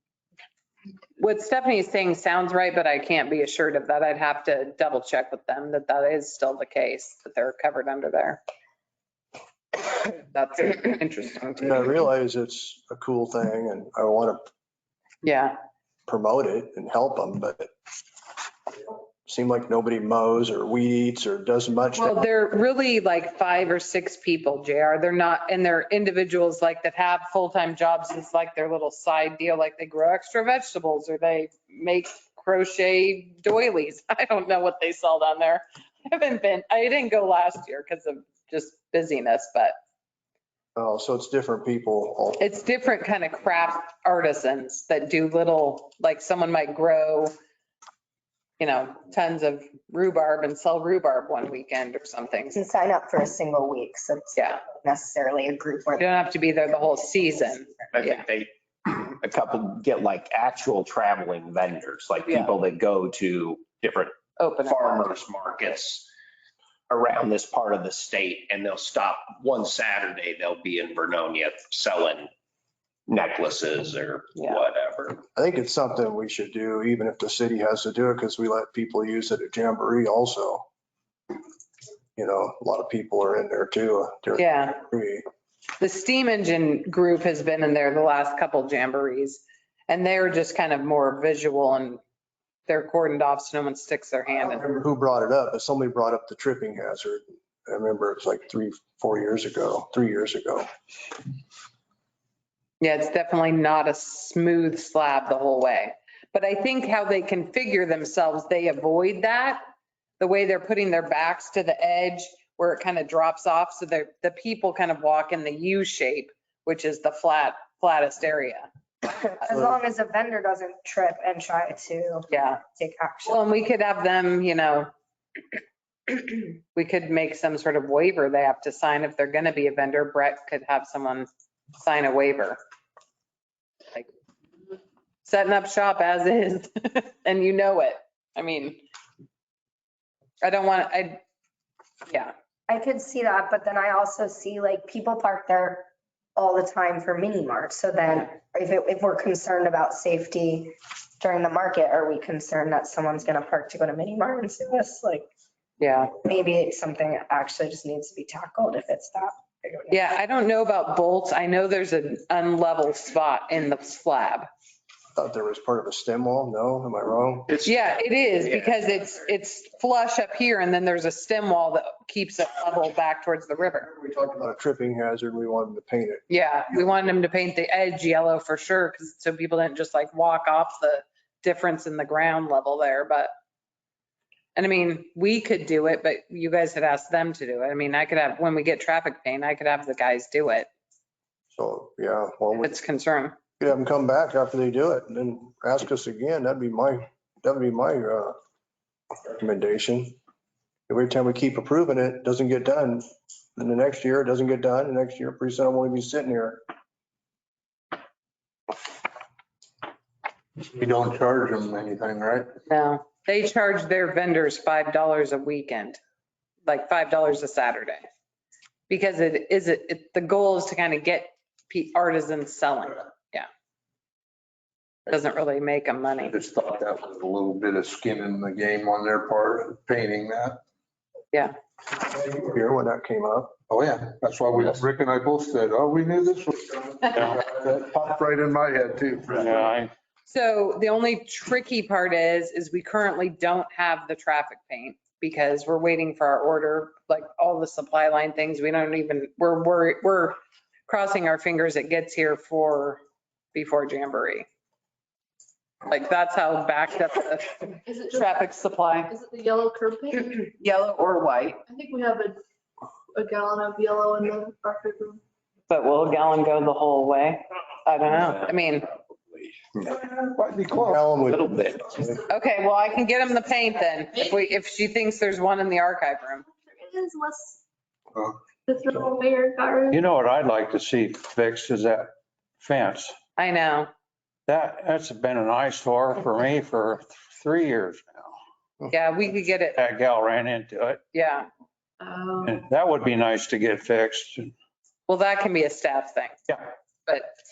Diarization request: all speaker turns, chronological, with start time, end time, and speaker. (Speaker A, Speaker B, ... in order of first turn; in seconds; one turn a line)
Speaker A: 1.2-8.4
Speaker A: 10.1-11.8
Speaker B: 11.6-14.4
Speaker A: 15.2-15.6
Speaker B: 16.1-17.7
Speaker B: 19.3-22.2
Speaker A: 22.0-39.7
Speaker B: 40.8-42.4
Speaker A: 42.4-47.3
Speaker A: 48.6-52.6
Speaker C: 52.5-56.0
Speaker A: 56.0-58.2
Speaker D: 57.9-66.1
Speaker A: 62.3-62.5
Speaker A: 64.4-65.1
Speaker D: 66.9-72.3
Speaker D: 73.1-75.2
Speaker A: 74.3-74.6
Speaker B: 75.3-80.7
Speaker B: 82.2-85.2
Speaker A: 84.4-84.8
Speaker A: 85.8-92.0
Speaker A: 92.7-94.6
Speaker B: 94.4-100.7
Speaker A: 102.8-109.6
Speaker A: 110.2-118.7
Speaker C: 119.0-123.4
Speaker A: 122.3-122.6
Speaker A: 123.2-124.9
Speaker A: 126.8-132.6
Speaker A: 135.2-138.8
Speaker A: 140.4-141.2
Speaker A: 142.1-142.3
Speaker C: 142.7-155.2
Speaker A: 155.8-156.1
Speaker C: 156.2-159.9
Speaker A: 159.9-164.5
Speaker B: 165.2-167.6
Speaker A: 167.6-173.9
Speaker B: 173.9-176.2
Speaker A: 176.3-183.3
Speaker A: 184.6-190.7
Speaker B: 191.5-192.8
Speaker A: 192.6-193.3
Speaker B: 193.6-198.3
Speaker B: 199.2-200.2
Speaker B: 200.9-203.0
Speaker B: 203.6-206.6
Speaker E: 210.6-212.5
Speaker A: 212.7-216.0
Speaker A: 216.7-218.0
Speaker A: 218.9-223.5
Speaker A: 225.1-226.3
Speaker E: 226.2-230.6
Speaker B: 232.0-233.5
Speaker E: 233.7-239.7
Speaker F: 239.3-239.9
Speaker A: 240.3-250.4
Speaker A: 250.9-253.0
Speaker A: 253.5-254.4
Speaker A: 255.9-259.1
Speaker G: 257.9-258.4
Speaker G: 259.1-260.5
Speaker A: 260.3-261.6
Speaker G: 261.7-262.4
Speaker G: 263.1-265.2
Speaker A: 265.7-268.9
Speaker E: 269.9-271.0
Speaker B: 270.8-272.2
Speaker D: 271.4-271.8
Speaker A: 272.3-276.4
Speaker G: 276.6-277.6
Speaker G: 278.7-280.0
Speaker F: 279.9-282.1
Speaker F: 282.6-283.1
Speaker A: 283.4-283.9
Speaker F: 284.5-288.3
Speaker A: 288.9-289.8
Speaker F: 289.8-291.0
Speaker A: 291.1-291.5
Speaker G: 292.0-292.6
Speaker F: 292.4-294.5
Speaker A: 295.1-296.5
Speaker A: 297.1-297.3